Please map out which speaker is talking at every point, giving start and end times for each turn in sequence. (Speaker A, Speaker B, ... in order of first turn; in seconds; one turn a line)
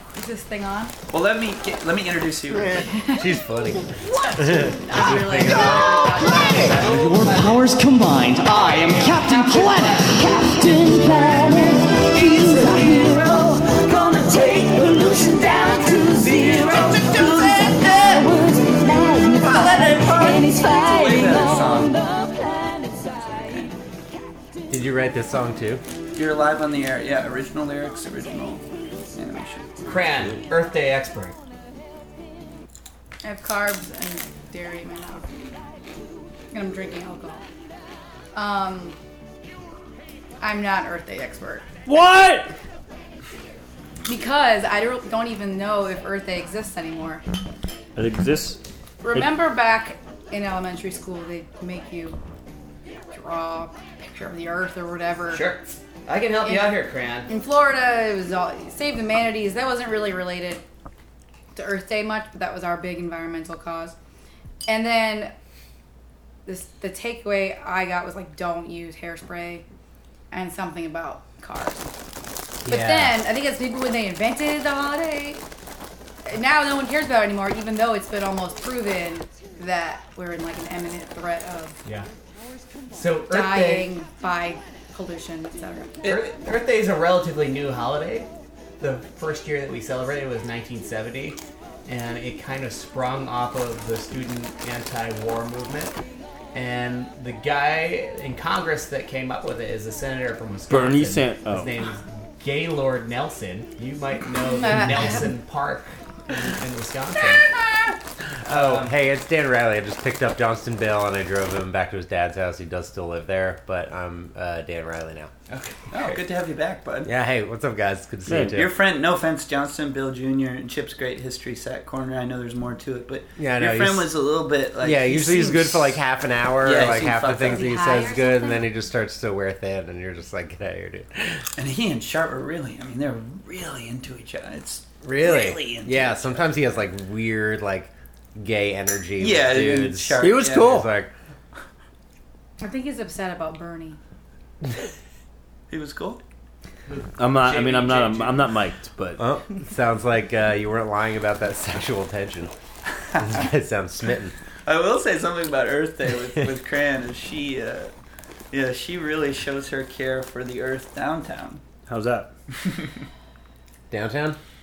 Speaker A: 0.1-0.9
Speaker B: 1.1-2.9
Speaker A: 2.8-3.4
Speaker C: 3.1-6.2
Speaker A: 3.9-7.0
Speaker D: 5.5-23.7
Speaker E: 6.5-7.9
Speaker E: 8.4-10.3
Speaker A: 9.2-9.6
Speaker B: 12.5-13.2
Speaker B: 16.1-18.4
Speaker B: 19.4-22.0
Speaker C: 24.7-25.8
Speaker B: 26.2-30.3
Speaker E: 29.9-31.4
Speaker A: 33.2-35.5
Speaker A: 36.5-37.5
Speaker A: 38.3-39.0
Speaker A: 40.4-41.7
Speaker F: 41.9-42.6
Speaker A: 44.1-47.2
Speaker F: 48.0-48.6
Speaker A: 49.0-52.2
Speaker A: 53.1-55.6
Speaker E: 55.3-57.3
Speaker A: 56.4-60.6
Speaker A: 61.5-64.0
Speaker A: 64.7-65.3
Speaker A: 66.5-69.7
Speaker A: 70.3-71.9
Speaker C: 72.7-73.2
Speaker A: 72.7-75.4
Speaker A: 76.3-81.8
Speaker E: 82.9-83.9
Speaker A: 83.3-86.0
Speaker B: 86.0-86.3
Speaker E: 86.0-88.3
Speaker E: 88.8-96.0
Speaker E: 96.5-107.5
Speaker F: 100.7-101.7
Speaker A: 104.6-105.1
Speaker C: 108.5-115.3
Speaker E: 108.5-109.0
Speaker E: 115.5-116.2
Speaker B: 115.9-117.1
Speaker C: 117.0-118.7
Speaker F: 118.3-118.6
Speaker B: 118.5-126.0
Speaker C: 123.4-124.2
Speaker C: 124.8-131.5
Speaker B: 126.6-127.7
Speaker A: 127.4-128.7
Speaker B: 131.6-136.6
Speaker C: 135.0-141.1
Speaker B: 139.2-140.8
Speaker F: 140.2-140.9
Speaker A: 142.6-144.0
Speaker B: 145.7-146.2
Speaker E: 146.9-148.5
Speaker F: 147.2-149.2
Speaker C: 149.2-152.5
Speaker C: 153.2-154.3
Speaker B: 154.7-157.9
Speaker B: 158.5-161.6
Speaker F: 161.9-162.3
Speaker C: 163.9-164.4